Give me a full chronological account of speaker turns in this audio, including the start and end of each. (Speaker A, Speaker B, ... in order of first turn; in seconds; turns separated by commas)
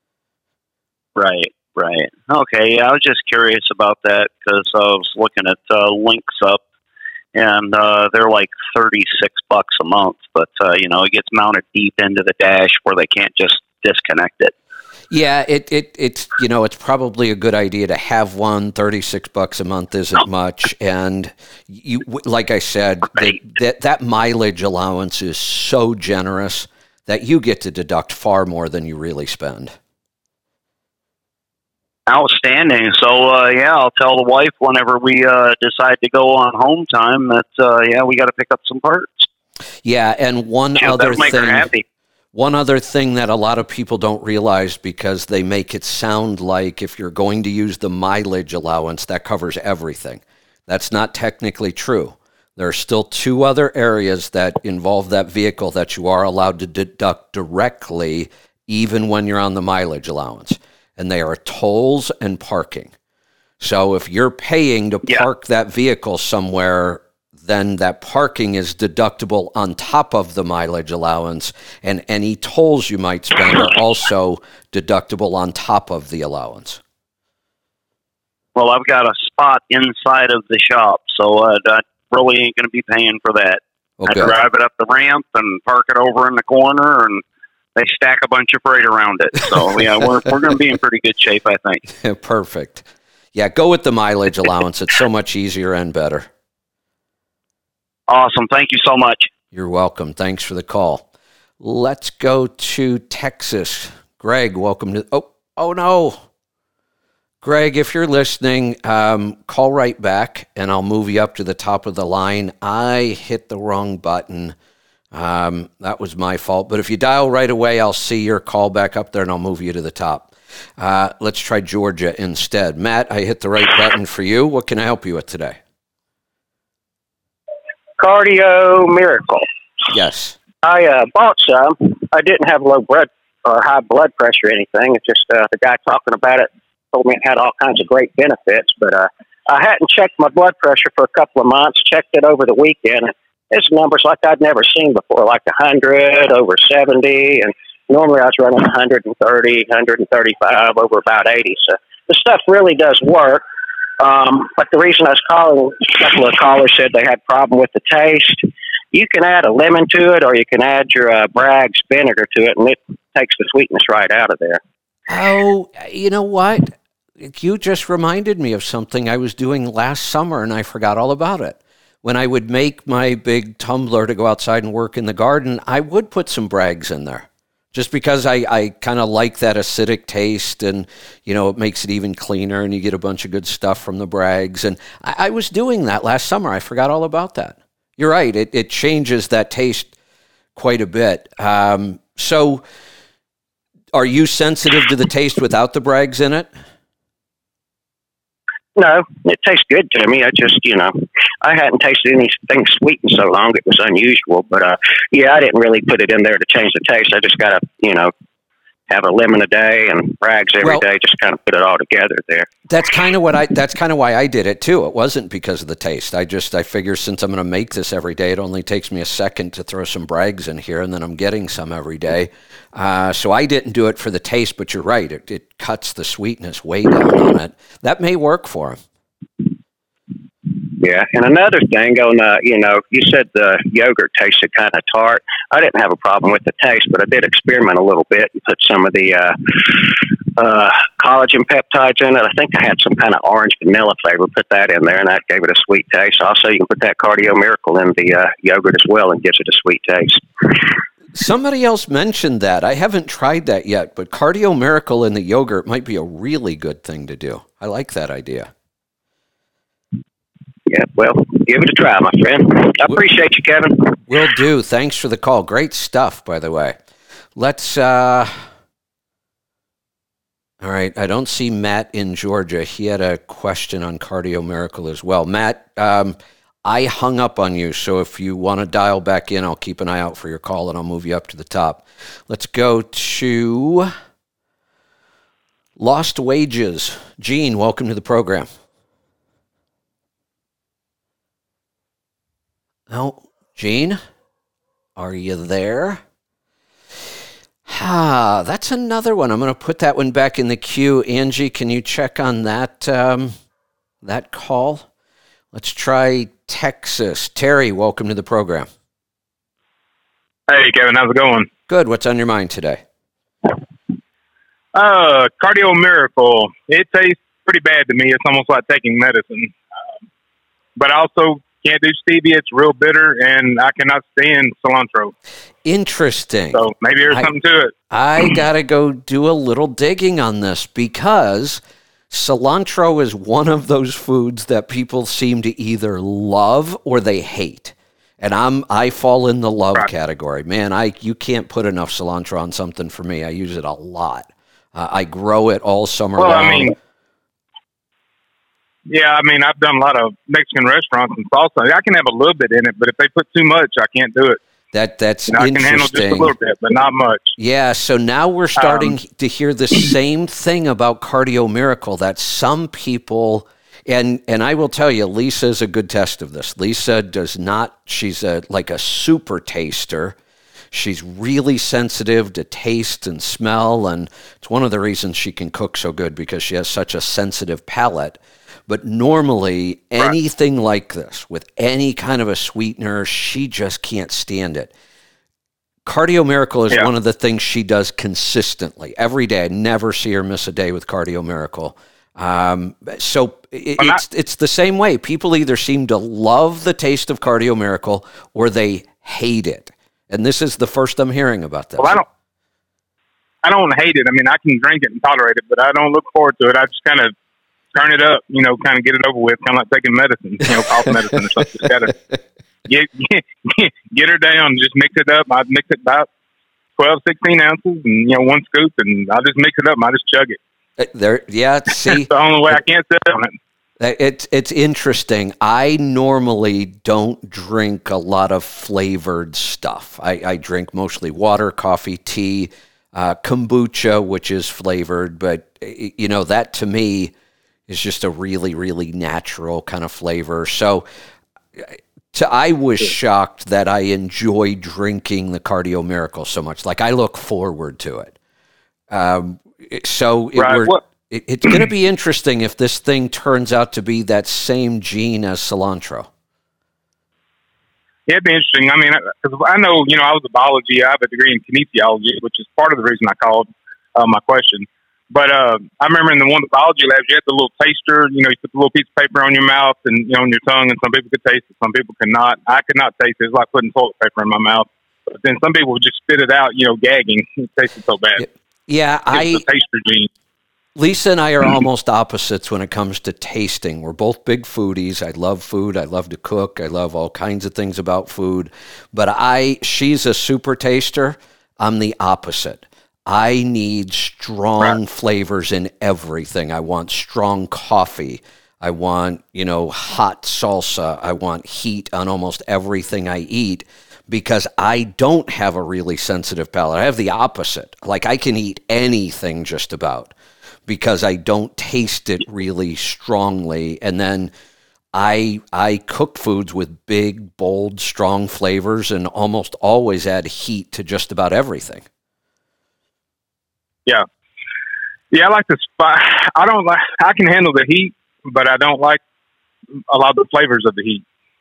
Speaker A: 1.1-6.6, Speaker A: 7.3-14.5, Speaker B: 15.1-29.7, Speaker A: 32.1-39.3, Speaker B: 39.8-41.7, Speaker A: 40.8-41.8, Speaker B: 42.3-62.9, Speaker B: 63.6-76.8, Speaker A: 78.5-87.2, Speaker B: 84.0-84.3, Speaker A: 87.8-91.8, Speaker B: 91.9-96.3, Speaker A: 98.1-99.3, Speaker B: 99.5-101.0, Speaker B: 101.6-106.2, Speaker B: 107.4-114.5, Speaker B: 115.1-125.6, Speaker C: 128.0-129.4, Speaker B: 129.9-130.4, Speaker C: 130.6-153.4, Speaker C: 154.0-164.6, Speaker B: 165.1-189.9, Speaker B: 190.6-192.6, Speaker B: 193.9-196.5, Speaker C: 198.7-208.1, Speaker C: 208.9-212.5, Speaker B: 212.7-228.8, Speaker C: 230.7-250.8, Speaker B: 251.1-258.5, Speaker C: 260.7-264.0, Speaker B: 264.1-266.8, Speaker B: 267.4-268.4, Speaker B: 270.6-283.9, Speaker B: 285.8-288.5, Speaker B: 292.9-294.0, Speaker B: 294.9-296.0, Speaker B: 297.7-303.3, Speaker B: 304.0-304.9, Speaker B: 305.5-308.7, Speaker D: 310.5-311.5, Speaker B: 311.7-312.8, Speaker D: 314.7-319.6, Speaker D: 320.8-325.1, Speaker B: 325.6-327.3, Speaker D: 326.5-327.7, Speaker B: 327.9-331.6, Speaker B: 332.1-346.7, Speaker D: 346.2-346.7, Speaker D: 348.9-354.4, Speaker B: 354.7-356.3, Speaker D: 355.3-357.3, Speaker B: 357.4-370.1, Speaker D: 358.6-358.9, Speaker B: 370.7-384.7, Speaker B: 385.9-402.0, Speaker D: 401.8-402.0, Speaker D: 403.4-407.1, Speaker D: 407.7-411.9, Speaker B: 410.6-412.1, Speaker D: 412.7-416.1, Speaker D: 416.8-420.4, Speaker B: 420.8-422.5, Speaker D: 421.9-423.3, Speaker B: 423.8-437.1, Speaker B: 437.7-440.9, Speaker B: 441.6-448.1, Speaker B: 448.9-456.1, Speaker D: 450.4-450.8, Speaker D: 458.1-478.2, Speaker B: 478.2-479.4, Speaker D: 479.1-480.1, Speaker B: 480.8-510.1, Speaker B: 510.7-514.3, Speaker B: 514.9-521.8, Speaker D: 525.1-529.0, Speaker D: 529.9-531.0